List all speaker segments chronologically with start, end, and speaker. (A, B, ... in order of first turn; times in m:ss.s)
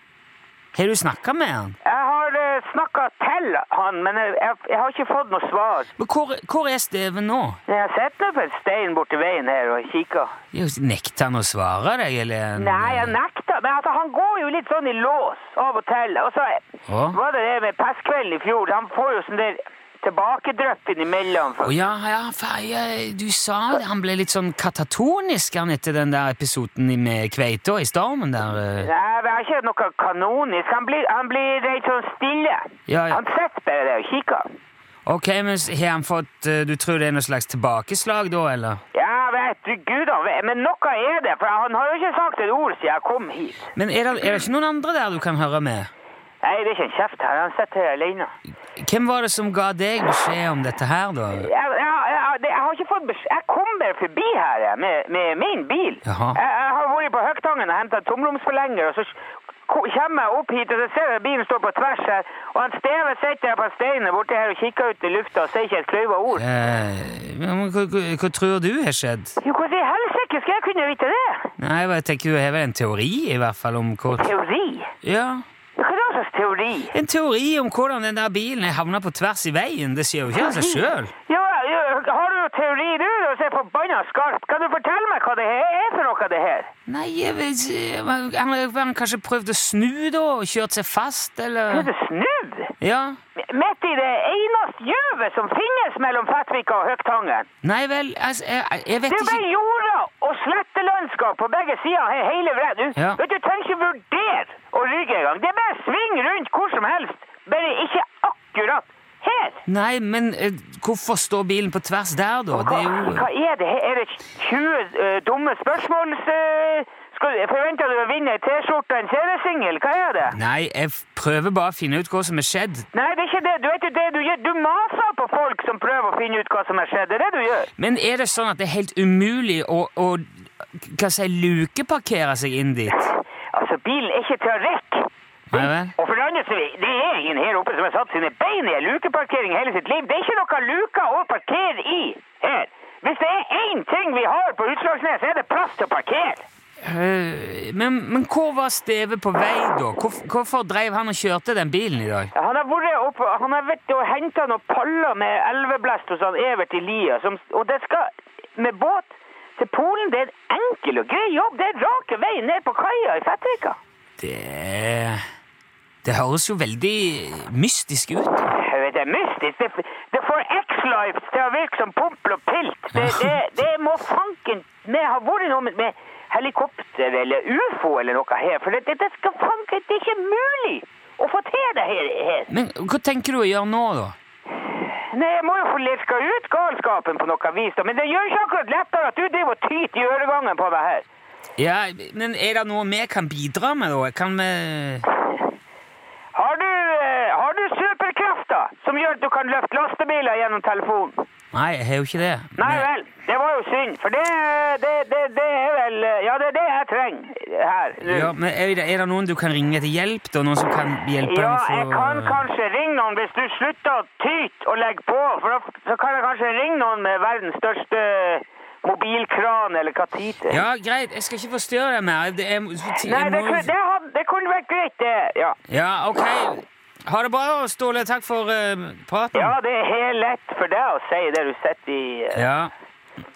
0:00.7-0:01.8 A
0:01.8-0:05.9 B
0:06.0-0:07.6 A
0:07.7-0:10.3 B
0:10.5-0:13.2 A
0:12.5-0:21.8 B
0:16.9-0:17.2 A
0:21.6-0:28.9 A
0:28.8-0:34.4 B
0:32.9-0:33.2 A
0:35.0-0:38.8 A
0:38.9-0:43.7 B
0:43.8-0:45.9 A
0:46.4-0:48.3 B
0:48.8-0:51.5 A
0:51.3-1:06.4 B
0:56.0-0:56.4 A
1:06.3-1:09.4 A
1:09.4-1:11.5 B
1:11.6-1:14.3 A
1:14.1-1:14.9 B
1:15.0-1:15.4 A
1:15.8-1:16.9 B
1:16.9-1:21.1 A
1:20.3-1:26.7 B
1:26.9-1:31.9 A
1:31.7-1:32.7 B
1:32.8-1:33.2 A
1:33.4-1:37.5 B
1:37.6-1:39.4 A
1:39.1-1:49.6 B
1:49.7-1:53.3 A
1:52.5-2:00.4 B
2:00.3-2:02.8 A
2:02.9-2:07.7 B
2:07.8-2:13.1 A
2:12.9-2:26.4 B
2:15.5-2:15.9 A
2:26.8-2:32.3 A
2:32.3-2:43.8 B
2:44.2-2:45.2 A
2:46.0-2:48.5 A
2:48.5-3:02.5 B
2:52.9-2:53.3 A
3:02.5-3:04.2 A
3:04.6-3:11.0 B
3:11.6-3:15.1 A
3:16.3-3:21.2 B
3:21.5-3:22.9 A
3:22.6-3:28.3 B
3:28.0-3:32.4 A
3:31.2-3:40.6 B
3:40.5-3:43.7 A
3:42.9-3:45.6 B
3:45.7-3:49.6 A
3:49.3-3:52.4 B
3:52.3-3:52.7 A